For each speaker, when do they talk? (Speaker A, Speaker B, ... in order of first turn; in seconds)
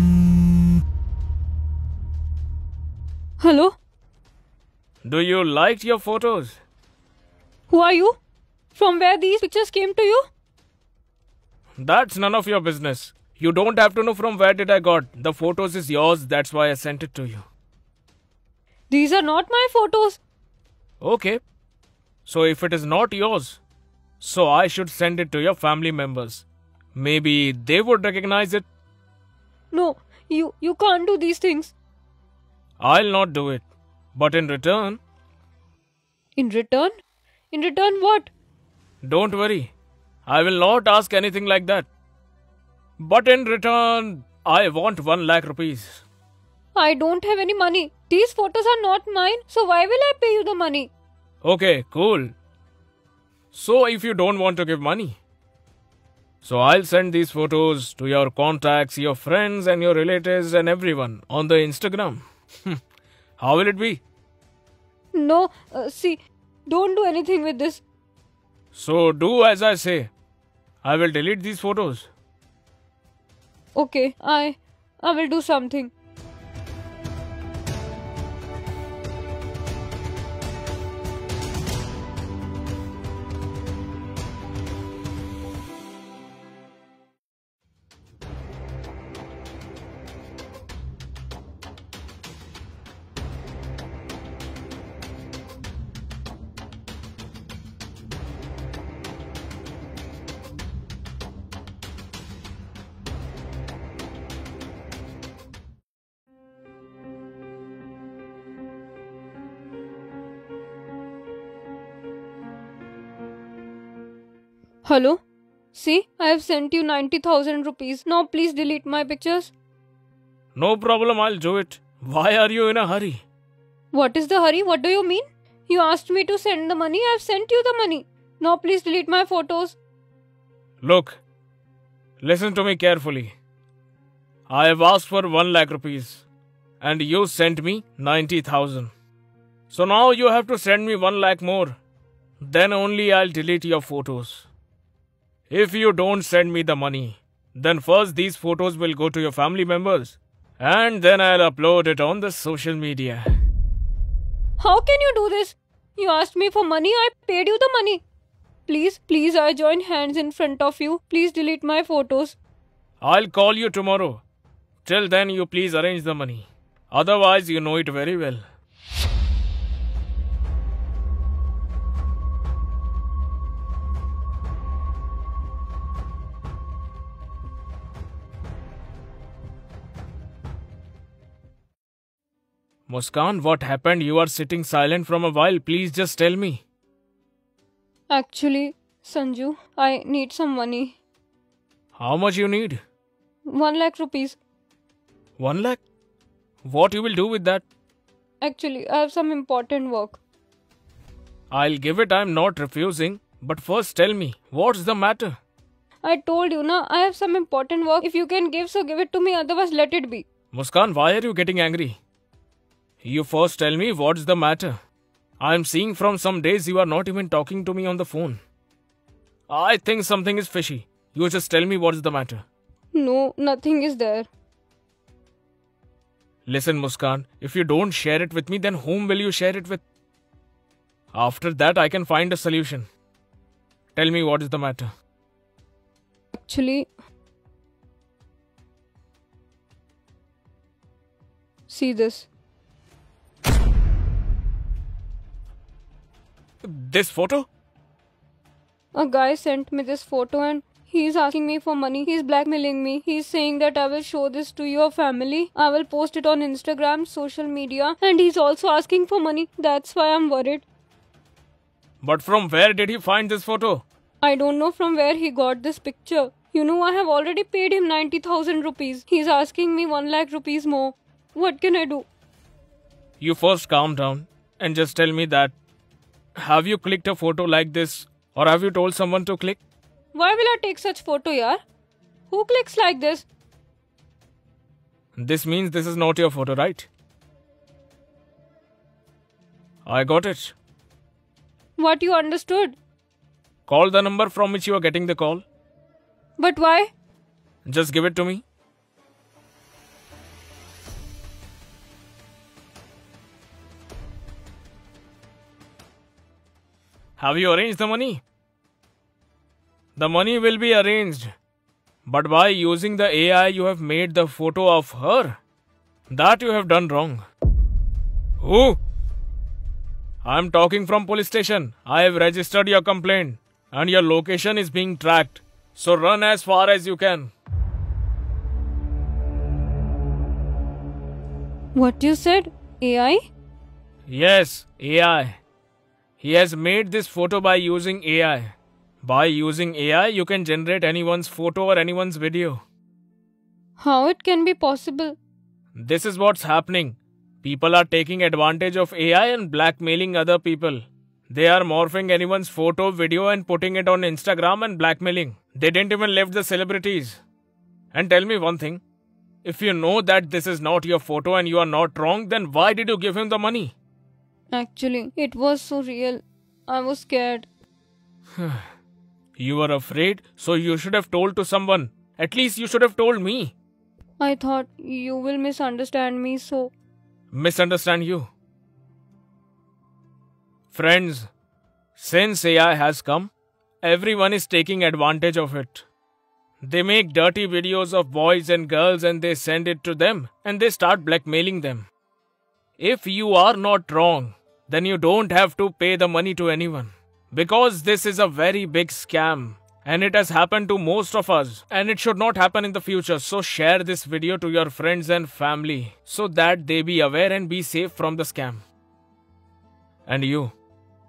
Speaker A: 3.4-3.8, 7.7-8.2, 8.7-10.2, 18.9-20.2, 29.7-31.7, 36.4-36.9, 37.5-38.3, 46.8-50.9, 65.1-67.8, 73.8-75.9, 114.8-115.2, 115.7-119.5, 123.9-129.8, 154.6-158.0, 158.7-162.4, 188.1-191.0, 193.5-194.4, 198.4-200.2, 206.0-210.3, 222.9-224.3, 236.3-236.9, 241.7-242.3, 248.9-260.6, 264.2-272.1, 280.1-281.6, 282.3-283.3, 291.8-292.8, 296.4-296.9, 331.8-333.3, 343.8-345.2, 364.5-367.5, 374.2-376.7
Speaker B: 5.0-6.6, 11.8-17.5, 21.0-21.4, 22.3-23.6, 24.2-28.7, 32.8-35.0, 39.0-39.7, 40.3-41.9, 43.0-46.0, 51.4-52.3, 53.5-55.2, 56.4-62.8, 63.4-64.0, 68.7-70.1, 70.8-72.1, 120.5-123.2, 130.8-131.2, 132.2-133.3, 134.5-136.3, 136.8-138.9, 139.7-141.8, 142.4-144.5, 145.5-153.3, 163.0-164.2, 164.8-168.4, 182.9-186.6, 192.0-192.8, 195.4-195.8, 196.7-197.7, 201.5-205.3, 210.5-212.0, 213.0-214.8, 215.4-218.4, 219.5-222.4, 226.5-229.8, 231.1-232.9, 233.9-234.9, 246.6-247.5, 262.0-263.8, 273.2-275.6, 276.4-279.6, 285.2-286.9, 289.9-290.6, 293.7-295.4, 297.6-298.4, 307.2-308.2, 310.0-311.3, 312.1-315.4, 316.1-317.3, 318.4-318.8, 320.2-327.3, 334.1-335.4, 336.2-342.6, 345.8-357.2, 357.9-358.8, 359.4-363.8, 368.4-368.7, 369.4-373.6, 377.3-378.3, 380.7-381.3, 382.0-383.3, 383.8-385.9, 386.6-391.9, 392.8-408.6, 410.1-410.6